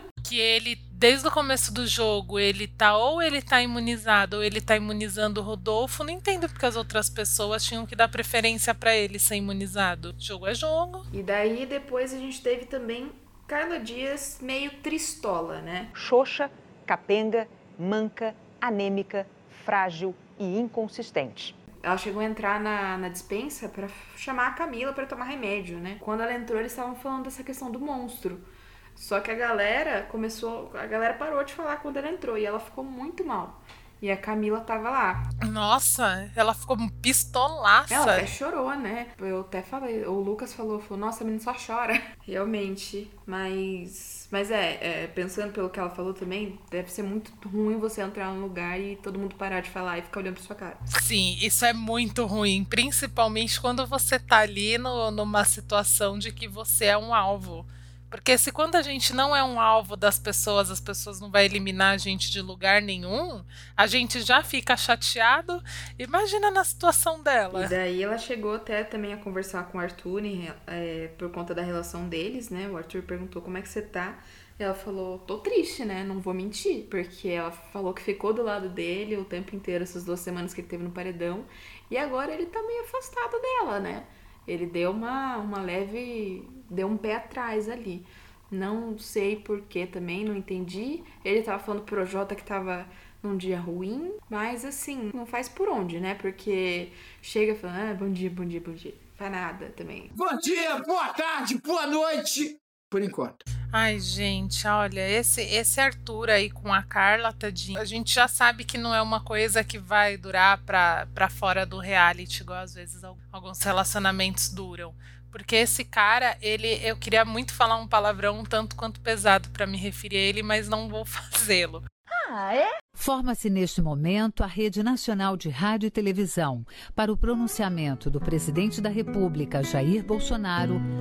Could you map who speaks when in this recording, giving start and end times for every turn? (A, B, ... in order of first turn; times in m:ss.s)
0:00.2-0:11.0 A
0:11.1-0:15.9 B
0:15.9-0:21.6 C
0:21.8-0:35.2 B
0:35.4-0:38.2 A
0:37.9-0:50.8 B
0:50.9-1:07.7 A
1:07.5-1:40.1 B
1:40.1-1:43.4 D
1:43.7-2:01.8 A
2:03.0-2:10.9 E